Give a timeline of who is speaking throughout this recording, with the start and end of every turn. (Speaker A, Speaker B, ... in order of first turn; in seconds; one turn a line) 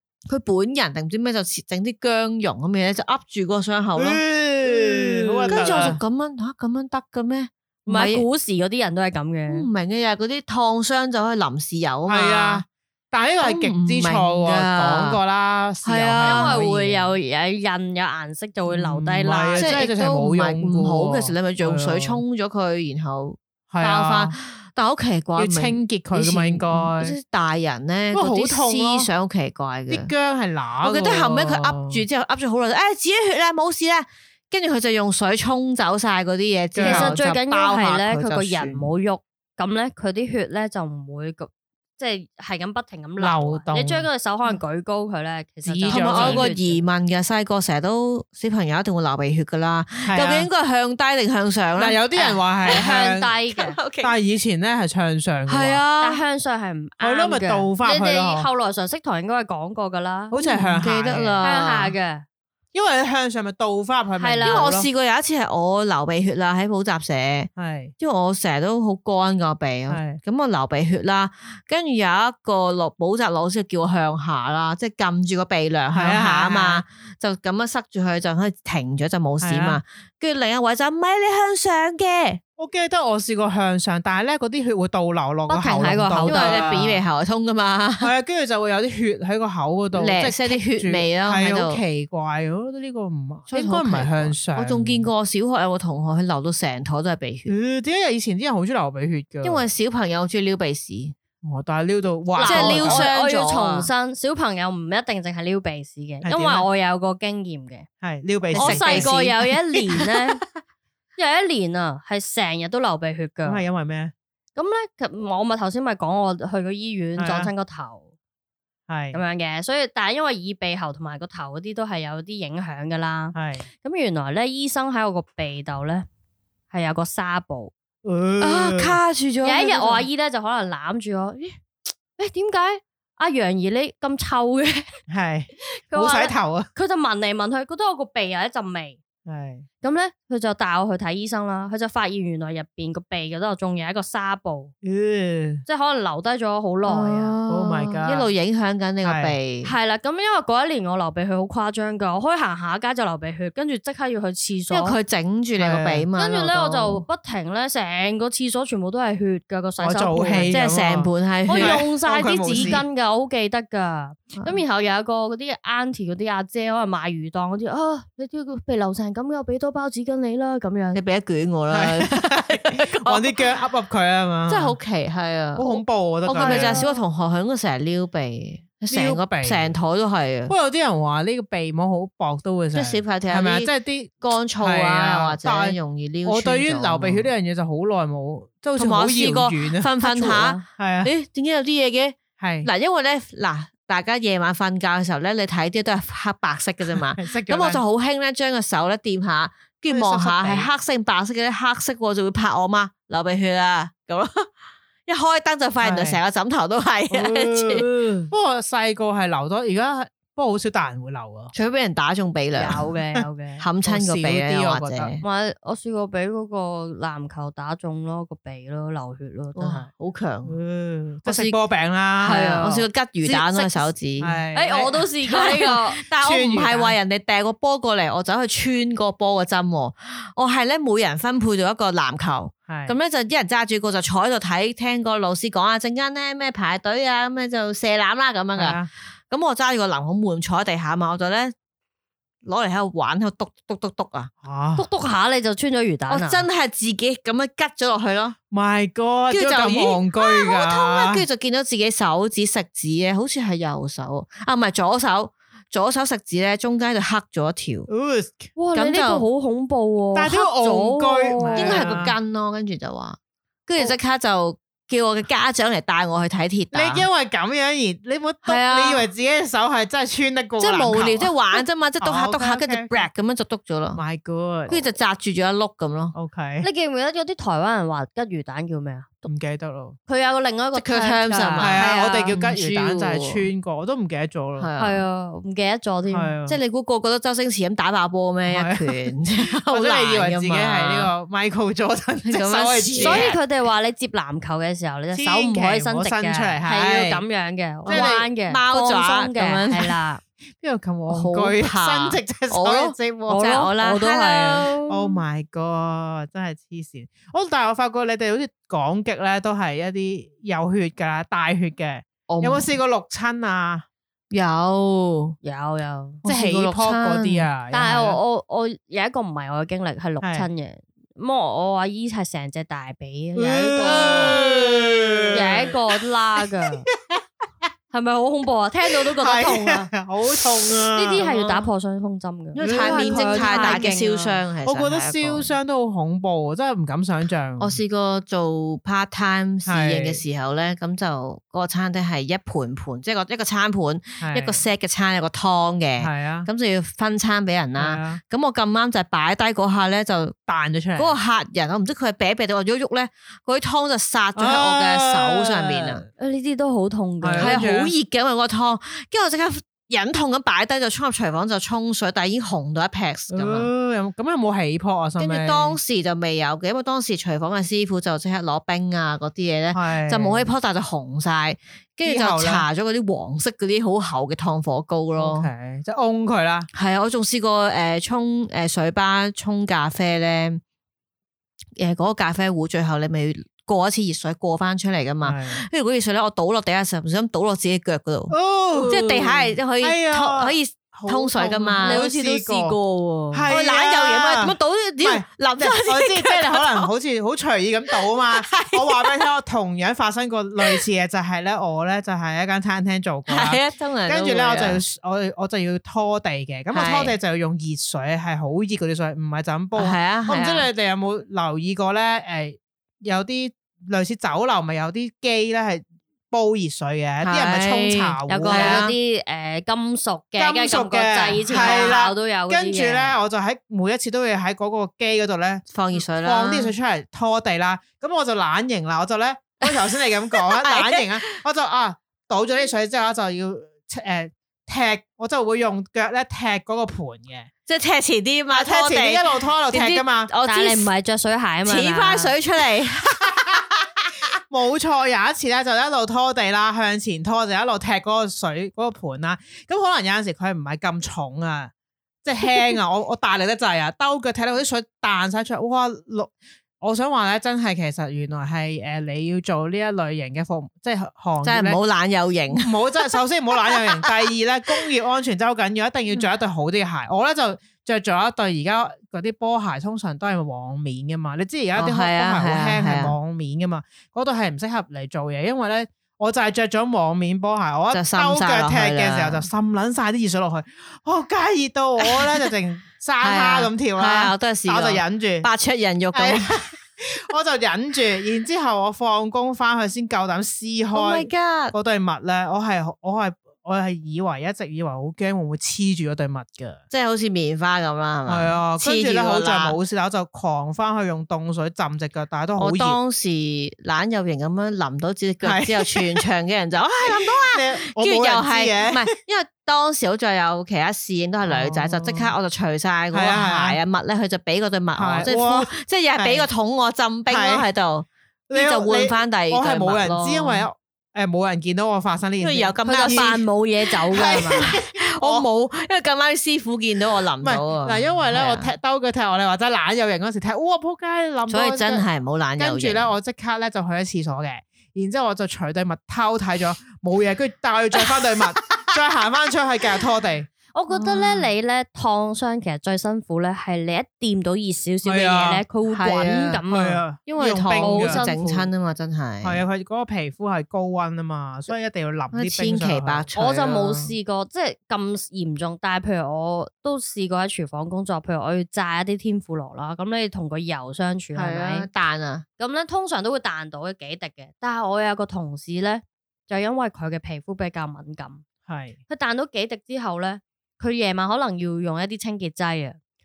Speaker A: 0.3-8.2
Speaker B: 4.0-6.0
Speaker C: 7.9-9.7
Speaker A: 9.5-12.6
Speaker B: 12.1-17.1
Speaker A: 13.4-15.2
Speaker A: 15.8-16.6
Speaker C: 16.2-19.8
Speaker B: 18.7-22.2
Speaker A: 19.6-30.1
Speaker B: 23.7-24.4
Speaker B: 25.4-27.2
Speaker B: 28.1-29.1
Speaker B: 29.9-32.0
Speaker A: 30.8-38.9
Speaker B: 36.7-37.1
Speaker C: 36.8-46.8
Speaker B: 43.2-44.1
Speaker B: 45.7-46.5
Speaker A: 45.8-52.0
Speaker B: 50.0-50.5
Speaker B: 51.8-53.3
Speaker C: 52.1-53.8
Speaker A: 53.5-54.1
Speaker B: 54.0-55.8
Speaker A: 55.5-56.2
Speaker C: 56.0-60.4
Speaker B: 57.0-58.5
Speaker B: 60.3-61.4
Speaker A: 60.4-62.0
Speaker C: 61.4-62.2
Speaker B: 62.7-64.9
Speaker C: 64.2-64.8
Speaker A: 64.4-82.4
Speaker B: 67.6-67.9
Speaker B: 69.9-70.2
Speaker B: 75.9-76.8
Speaker B: 79.4-79.8
Speaker B: 82.6-87.0
Speaker C: 85.5-86.8
Speaker A: 86.2-88.1
Speaker B: 88.0-95.1
Speaker A: 89.9-91.8
Speaker A: 93.5-97.5
Speaker B: 97.5-99.7
Speaker A: 99.4-101.2
Speaker B: 101.4-103.1
Speaker C: 102.4-107.9
Speaker A: 102.4-103.9
Speaker B: 106.2-106.7
Speaker B: 108.0-109.2
Speaker A: 108.5-109.4
Speaker C: 108.5-110.4
Speaker C: 111.2-113.6
Speaker B: 113.5-114.1
Speaker C: 114.6-118.1
Speaker B: 117.2-117.5
Speaker B: 118.9-119.2
Speaker C: 119.1-126.1
Speaker B: 123.3-123.7
Speaker C: 126.7-127.7
Speaker B: 128.1-129.0
Speaker A: 128.4-130.1
Speaker C: 129.4-131.6
Speaker C: 132.2-134.9
Speaker B: 135.1-136.7
Speaker C: 135.9-139.0
Speaker B: 139.3-139.7
Speaker C: 139.8-144.7
Speaker B: 144.8-145.6
Speaker C: 145.7-147.3
Speaker A: 146.9-149.7
Speaker B: 147.5-148.3
Speaker B: 149.0-149.3
Speaker C: 149.6-155.0
Speaker A: 154.7-157.0
Speaker B: 155.6-156.1
Speaker C: 156.2-160.6
Speaker B: 159.8-162.8
Speaker A: 160.4-161.9
Speaker C: 161.5-171.0
Speaker A: 162.5-162.8
Speaker A: 170.9-173.4
Speaker B: 171.7-174.8
Speaker A: 174.5-180.5
Speaker B: 175.6-176.8
Speaker C: 176.4-177.0
Speaker B: 178.9-179.8
Speaker B: 180.5-191.1
Speaker A: 182.7-183.7
Speaker A: 184.2-187.3
Speaker A: 188.8-204.5
Speaker B: 192.4-192.7
Speaker B: 196.9-197.8
Speaker B: 199.9-200.7
Speaker A: 205.1-208.3
Speaker B: 205.8-206.2
Speaker B: 207.1-211.5
Speaker A: 211.5-212.8
Speaker C: 212.6-213.6
Speaker B: 212.6-212.9
Speaker A: 213.6-215.2
Speaker B: 213.8-215.1
Speaker C: 215.2-219.8
Speaker A: 219.6-220.6
Speaker B: 220.4-222.5
Speaker A: 221.2-221.6
Speaker A: 222.2-224.4
Speaker C: 222.2-223.9
Speaker B: 224.2-225.0
Speaker C: 224.5-226.0
Speaker A: 225.2-241.5
Speaker B: 226.1-227.0
Speaker B: 232.7-232.9
Speaker B: 238.6-238.9
Speaker A: 242.4-244.3
Speaker B: 244.4-244.9
Speaker C: 244.8-246.4
Speaker A: 246.1-248.4
Speaker B: 248.5-251.2
Speaker A: 249.3-257.9
Speaker B: 257.9-258.5
Speaker C: 258.6-261.9
Speaker A: 258.7-259.2
Speaker B: 260.1-262.2
Speaker A: 261.6-267.1
Speaker B: 266.7-273.1
Speaker C: 268.4-269.0
Speaker A: 270.6-274.0
Speaker B: 273.9-274.9
Speaker A: 274.7-276.1
Speaker B: 276.1-276.7
Speaker C: 276.6-279.3
Speaker B: 279.3-280.0
Speaker C: 280.1-282.4
Speaker A: 280.8-283.5
Speaker B: 281.6-284.7
Speaker A: 284.6-285.0
Speaker C: 284.8-286.3
Speaker B: 286.1-286.6
Speaker A: 286.5-291.1
Speaker B: 288.5-289.1
Speaker B: 289.6-293.4
Speaker A: 292.3-293.3
Speaker C: 293.0-300.2
Speaker B: 295.1-297.2
Speaker B: 297.9-298.2
Speaker A: 297.9-300.0
Speaker B: 300.6-303.5
Speaker A: 301.1-305.2
Speaker C: 303.3-304.7
Speaker B: 304.9-313.9
Speaker A: 312.3-312.7
Speaker A: 314.3-315.4
Speaker C: 315.4-316.2
Speaker B: 316.2-318.2
Speaker A: 316.3-317.5
Speaker C: 317.7-324.4
Speaker B: 320.2-320.5
Speaker B: 323.4-325.8
Speaker A: 323.8-324.4
Speaker C: 325.3-326.9
Speaker C: 327.9-329.9
Speaker B: 329.1-331.6
Speaker C: 330.9-334.2
Speaker A: 332.6-335.6
Speaker B: 332.6-337.8
Speaker A: 337.6-350.4
Speaker B: 339.7-340.2
Speaker B: 344.2-344.6
Speaker B: 346.0-346.5
Speaker B: 347.8-348.2
Speaker B: 350.5-351.2
Speaker A: 351.0-356.1
Speaker B: 354.4-356.1
Speaker C: 356.2-357.6
Speaker B: 357.2-357.9
Speaker A: 357.3-363.7
Speaker B: 363.3-365.8
Speaker A: 365.2-375.5
Speaker B: 369.7-370.5
Speaker B: 372.0-372.7
Speaker B: 375.2-376.7
Speaker A: 376.7-380.6
Speaker A: 381.8-396.9
Speaker B: 385.2-385.6
Speaker B: 388.3-392.8
Speaker C: 391.9-392.1
Speaker B: 393.3-418.9
Speaker A: 398.4-399.3
Speaker A: 403.3-404.8
Speaker A: 406.7-407.1
Speaker A: 409.8-410.7
Speaker A: 417.2-418.9
Speaker C: 418.3-423.2
Speaker B: 420.4-437.5
Speaker A: 421.5-422.0
Speaker A: 425.7-426.8
Speaker A: 430.3-431.4
Speaker A: 437.7-440.9
Speaker B: 438.5-440.3
Speaker C: 440.4-442.3
Speaker A: 441.6-443.4
Speaker B: 444.5-451.7
Speaker B: 452.2-461.8
Speaker A: 461.4-463.1
Speaker B: 462.5-485.5
Speaker A: 463.7-464.1
Speaker A: 471.8-473.2
Speaker A: 477.9-479.5
Speaker A: 483.2-486.6
Speaker B: 486.1-496.8
Speaker A: 490.9-491.8
Speaker A: 496.9-499.8
Speaker B: 498.3-503.0
Speaker A: 502.6-520.7
Speaker B: 505.4-506.2
Speaker B: 507.0-509.1
Speaker B: 511.4-512.3
Speaker B: 513.1-513.8
Speaker B: 515.0-516.5
Speaker B: 517.3-517.6
Speaker B: 518.5-523.4
Speaker A: 522.4-523.4
Speaker C: 522.8-524.7
Speaker A: 524.0-528.7
Speaker B: 524.1-525.5
Speaker B: 527.4-532.0
Speaker A: 531.5-533.1
Speaker B: 532.6-540.5
Speaker C: 540.7-547.0
Speaker A: 540.9-541.4
Speaker B: 545.0-545.6
Speaker A: 545.9-546.6
Speaker B: 546.7-548.7
Speaker A: 547.3-549.6
Speaker C: 547.8-548.5
Speaker B: 549.4-553.3
Speaker A: 552.3-554.1
Speaker C: 553.4-561.9
Speaker A: 561.4-562.5
Speaker C: 562.6-568.4
Speaker B: 568.7-569.0
Speaker C: 569.1-573.0